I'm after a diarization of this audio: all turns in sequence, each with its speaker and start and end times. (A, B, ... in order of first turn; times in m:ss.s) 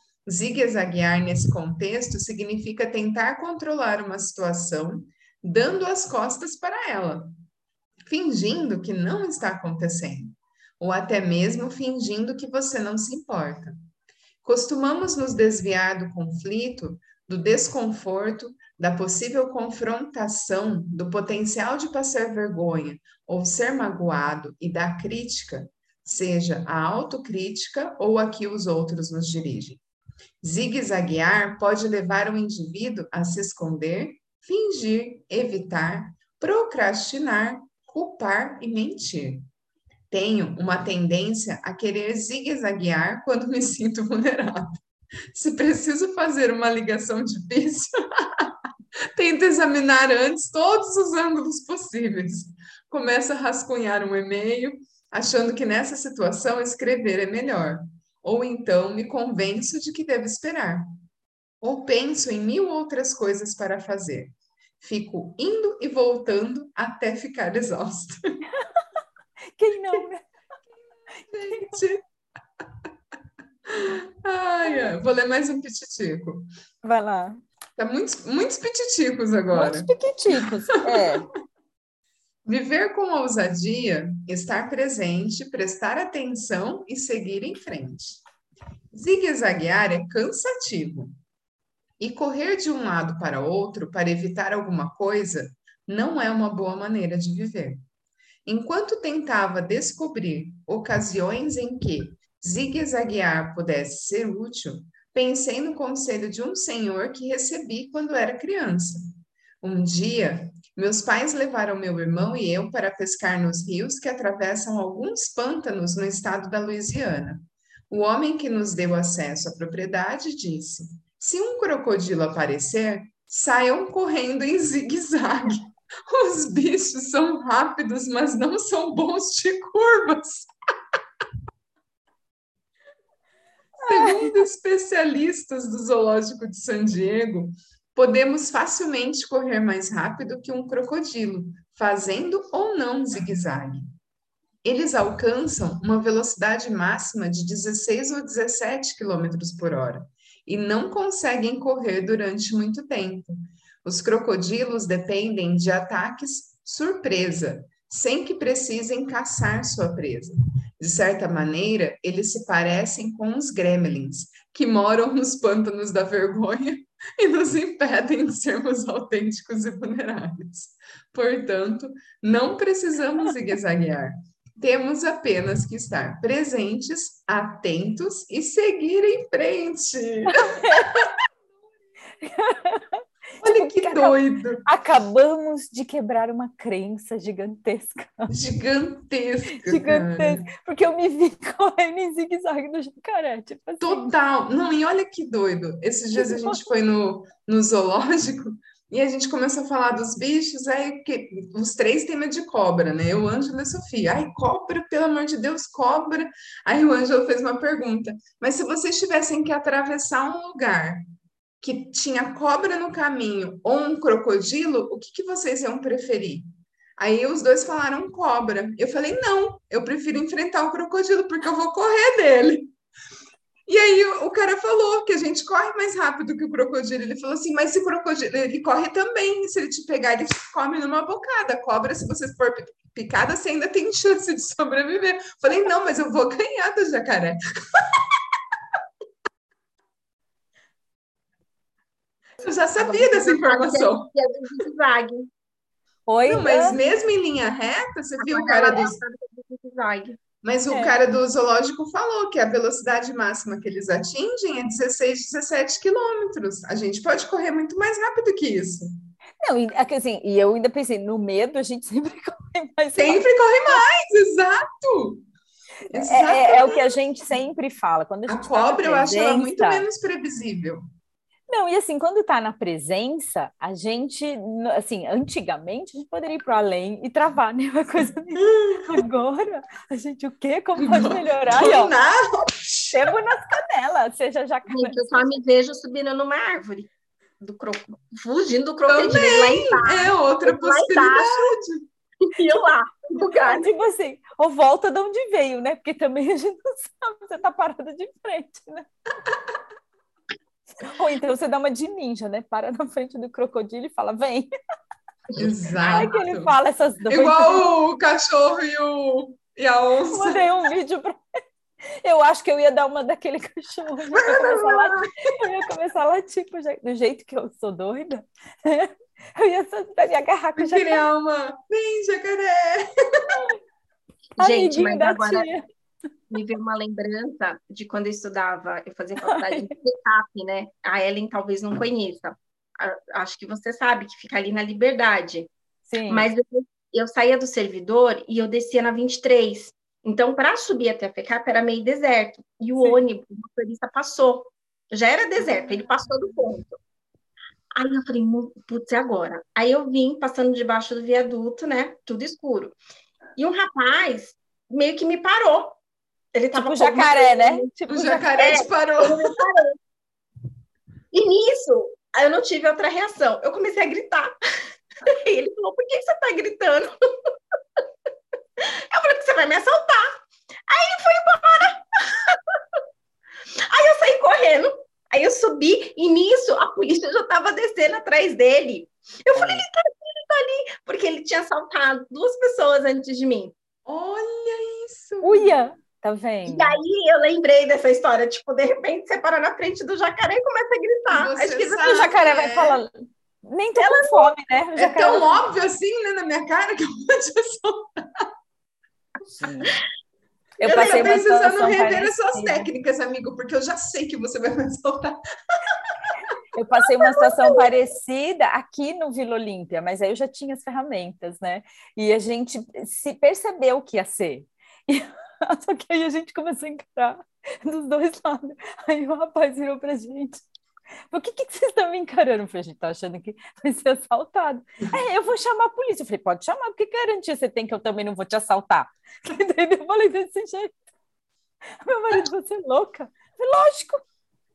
0:00.2-0:07.3 A
0:08.0-0:13.8 A
0:14.4-0:29.8 A
0:30.4-0:39.5 A
0:40.1-0:44.8 A
0:45.3-1:00.9 A
1:01.6-1:08.4 A
1:09.6-1:10.2 B
1:11.3-1:12.0 A
1:13.7-1:16.5 A
1:16.8-1:17.4 B
1:17.8-1:19.9 A
1:19.5-1:21.3 B
1:22.4-1:28.2 A
1:28.9-1:31.1 A
1:32.0-1:37.8 A
1:38.4-2:10.5 A
2:13.8-2:14.3 B
2:13.8-2:23.9 A
2:24.6-3:01.1 A
3:00.3-3:01.1 B
3:02.2-3:08.3 B
3:03.4-3:04.6 A
3:08.3-3:10.4 A
3:09.6-3:14.1 B
3:13.8-3:31.0 A
3:16.2-3:16.6 B
3:31.6-3:42.7 A
3:43.7-3:58.2 A
4:02.4-4:04.1 A
4:02.8-4:05.3 C
4:06.1-4:06.7 B
4:06.2-4:09.0 A
4:08.2-4:10.2 C
4:10.4-4:18.9 A
4:10.7-4:11.0 B
4:19.4-4:23.8 B
4:23.0-4:25.2 A
4:25.9-4:26.9 A
4:25.9-4:29.8 B
4:28.3-4:30.9 A
4:31.5-4:41.9 B
4:38.4-4:38.9 A
4:40.8-4:43.1 A
4:42.9-4:45.4 B
4:44.7-4:51.5 C
4:48.9-4:51.8 A
4:52.2-4:53.7 C
4:53.2-4:58.9 B
5:00.8-5:04.5 B
5:05.4-5:06.5 A
5:05.8-5:07.6 B
5:07.1-5:10.5 A
5:10.1-5:11.4 B
5:12.0-5:21.0 B
5:14.1-5:15.1 C
5:20.6-5:23.2 A
5:24.4-5:25.5 C
5:24.4-5:25.6 B
5:26.3-5:35.5 C
5:29.2-5:29.7 B
5:35.9-5:36.3 B
5:36.1-5:46.8 C
5:47.8-5:52.8 C
5:53.4-5:55.8 C
5:56.3-5:57.7 C
5:56.6-5:58.5 B
5:57.9-5:59.4 A
5:58.4-5:59.7 C
6:01.1-6:04.3 C
6:05.0-6:06.9 C
6:08.6-6:12.6 C
6:13.7-6:23.5 C
6:19.3-6:19.6 B
6:23.8-6:25.5 A
6:25.2-6:26.8 B
6:26.4-6:32.0 C
6:31.1-6:32.8 A
6:31.8-6:32.9 B
6:33.4-6:35.4 B
6:33.8-6:34.3 C
6:34.8-6:38.3 A
6:39.3-6:39.7 B
6:40.6-6:42.6 B
6:40.6-6:46.1 A
6:46.5-7:00.4 B
6:47.0-6:47.6 C
7:01.1-7:10.8 B
7:11.8-7:14.0 B